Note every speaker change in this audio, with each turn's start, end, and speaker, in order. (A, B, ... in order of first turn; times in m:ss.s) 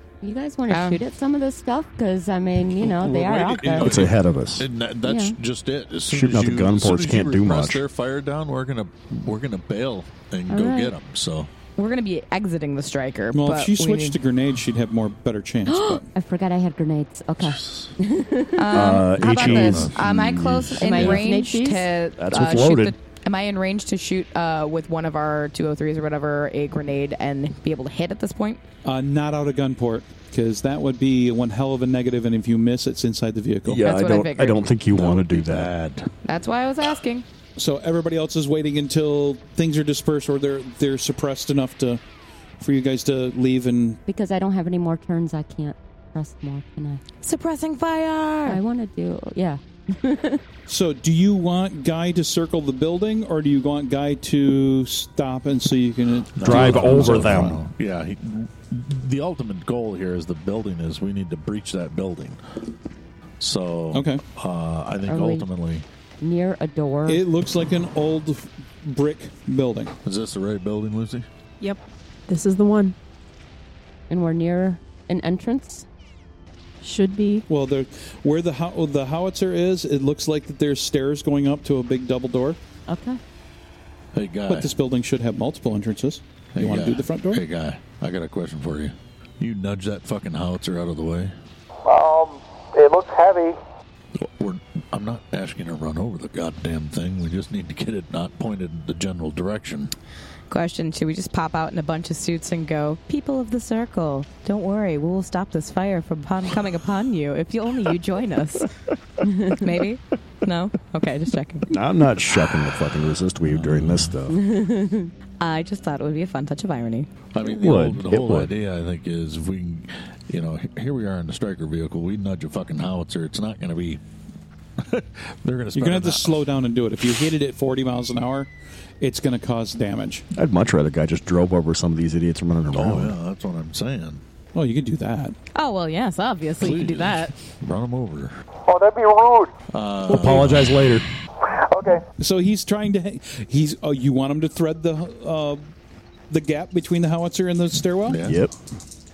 0:00.2-0:04.0 A
0:00.7-0:01.0 B
0:02.7-0:11.5 C
0:03.8-0:04.6 D
0:05.0-0:05.3 A
0:06.1-0:07.8 D
0:10.5-0:10.9 A
0:11.8-0:14.2 B
0:13.3-0:16.1 E
0:15.7-0:19.0 A
0:17.4-0:17.9 C
0:18.6-0:28.6 B
0:18.7-0:21.3 D
0:19.2-0:20.5 C
0:20.8-0:21.9 A
0:22.2-0:22.9 D
0:28.8-0:33.8 E
0:33.6-0:35.7 D
0:33.8-0:34.6 B
0:34.9-0:36.1 C
0:36.2-0:37.2 B
0:37.6-0:42.0 E
0:42.6-0:44.0 E
0:44.0-0:47.0 A
0:47.2-0:48.6 B
0:48.4-0:50.4 A
0:50.7-0:57.3 E
0:56.4-1:02.4 C
0:56.4-0:57.6 D
1:03.4-1:05.8 C
1:03.9-1:04.2 E
1:05.1-1:05.4 A
1:06.2-1:07.2 A
1:07.1-1:09.9 E
1:10.0-1:11.2 C
1:11.6-1:12.9 F
1:14.1-1:15.8 A
1:16.8-1:17.4 F
1:17.5-1:22.6 E
1:22.9-1:23.2 A
1:24.1-1:24.7 C
1:24.5-1:27.4 E
1:26.5-1:31.3 C
1:31.8-1:33.6 G
1:34.1-1:39.9 C
1:40.5-1:48.7 B
1:49.2-1:49.6 A
1:49.5-1:51.7 B
1:51.7-1:54.4 D
1:53.4-1:54.2 C
1:54.3-1:55.1 A
1:55.4-1:57.1 B
1:57.3-2:04.0 C
1:57.4-1:58.5 D
2:04.8-2:06.5 C
2:05.7-2:08.5 E
2:09.0-2:10.2 E
2:10.3-2:13.2 D
2:12.7-2:14.2 C
2:14.5-2:15.3 E
2:15.5-2:17.3 B
2:16.6-2:18.4 C
2:18.7-2:19.5 G
2:19.7-2:21.0 C
2:20.0-2:21.0 D
2:21.5-2:22.0 G
2:22.2-2:25.6 E
2:26.3-2:28.2 E
2:28.1-2:28.5 C
2:28.2-2:28.5 D